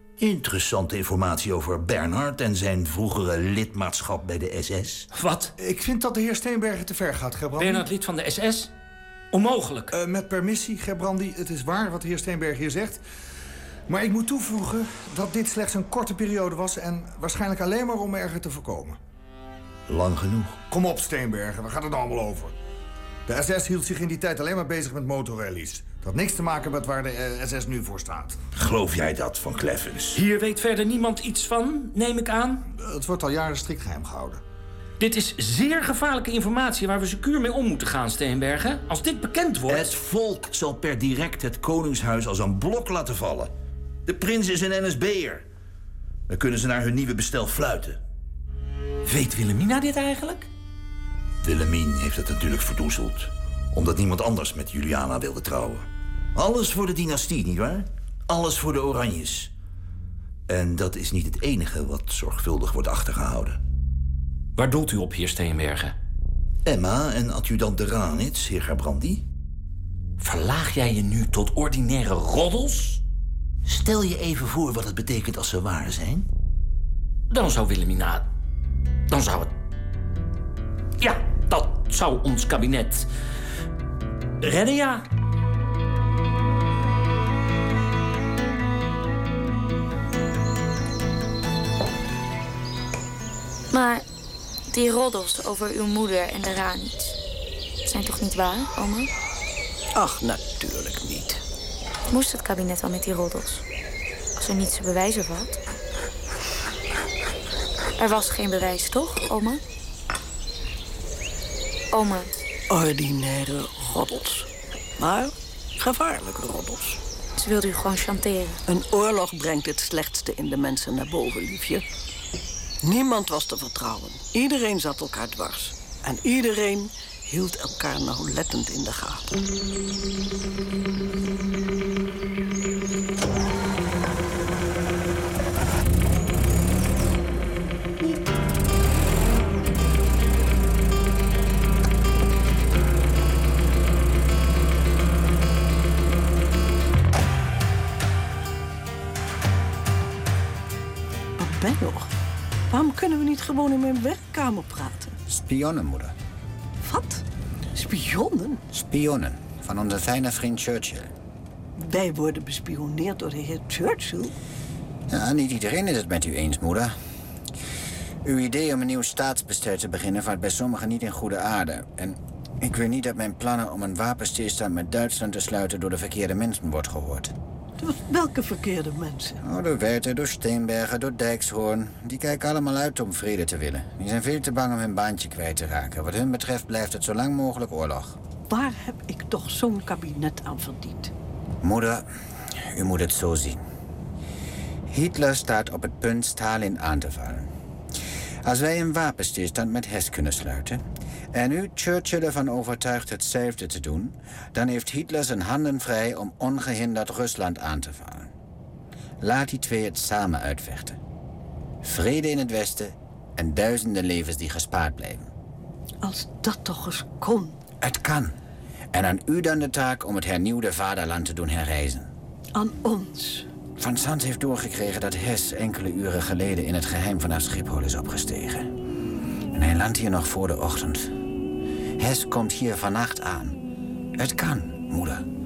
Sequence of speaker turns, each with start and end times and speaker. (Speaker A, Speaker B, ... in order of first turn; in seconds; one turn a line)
Speaker A: 0.2-5.1
Speaker B: 5.1-5.5
Speaker C: 5.6-7.9
Speaker B: 7.6-8.7
Speaker B: 9.3-9.9
Speaker C: 9.9-13.0
Speaker C: 13.9-19.0
Speaker A: 19.9-20.6
Speaker C: 20.7-22.6
Speaker C: 23.3-28.4
Speaker A: 28.6-30.2
Speaker B: 30.1-32.6
Speaker C: 32.7-34.4
Speaker B: 35.0-39.9
Speaker A: 39.7-43.5
Speaker A: 44.1-45.5
Speaker A: 46.3-48.0
Speaker B: 49.0-50.5
Speaker A: 51.4-59.5
Speaker A: 60.5-63.6
Speaker B: 64.6-66.0
Speaker A: 66.7-69.2
Speaker B: 70.2-73.0
Speaker A: 73.7-76.3
Speaker B: 77.3-78.3
Speaker B: 79.1-79.5
Speaker B: 81.0-83.1
Speaker B: 84.4-85.0
Speaker D: 93.7-94.1
Speaker D: 94.7-97.2
Speaker D: 97.8-99.1
Speaker E: 100.0-101.4
Speaker D: 102.1-103.6
Speaker D: 104.4-105.6
Speaker D: 108.0-109.6
Speaker D: 111.9-112.3
Speaker E: 112.7-117.0
Speaker D: 117.4-118.6
Speaker E: 118.7-121.9
Speaker E: 122.8-129.4
Speaker E: 151.4-152.1
Speaker E: 152.7-155.2
Speaker F: 155.3-156.2
Speaker E: 156.8-158.6
Speaker F: 158.7-161.1
Speaker E: 161.8-164.3
Speaker F: 165.1-166.9
Speaker F: 168.2-177.3
Speaker E: 177.8-179.4
Speaker F: 179.4-188.2
Speaker E: 188.5-191.1
Speaker F: 191.6-192.1
Speaker F: 192.7-193.6
Speaker F: 194.9-197.5
Speaker F: 198.4-208.3
Speaker F: 209.2-211.0
Speaker F: 211.8-215.3
Speaker E: 216.0-217.6
Speaker F: 217.8-218.3
Speaker F: 218.9-222.1
Speaker E: 222.6-223.5
Speaker F: 223.8-228.7
Speaker F: 229.5-231.1
Speaker F: 232.0-233.6
Speaker F: 234.2-235.2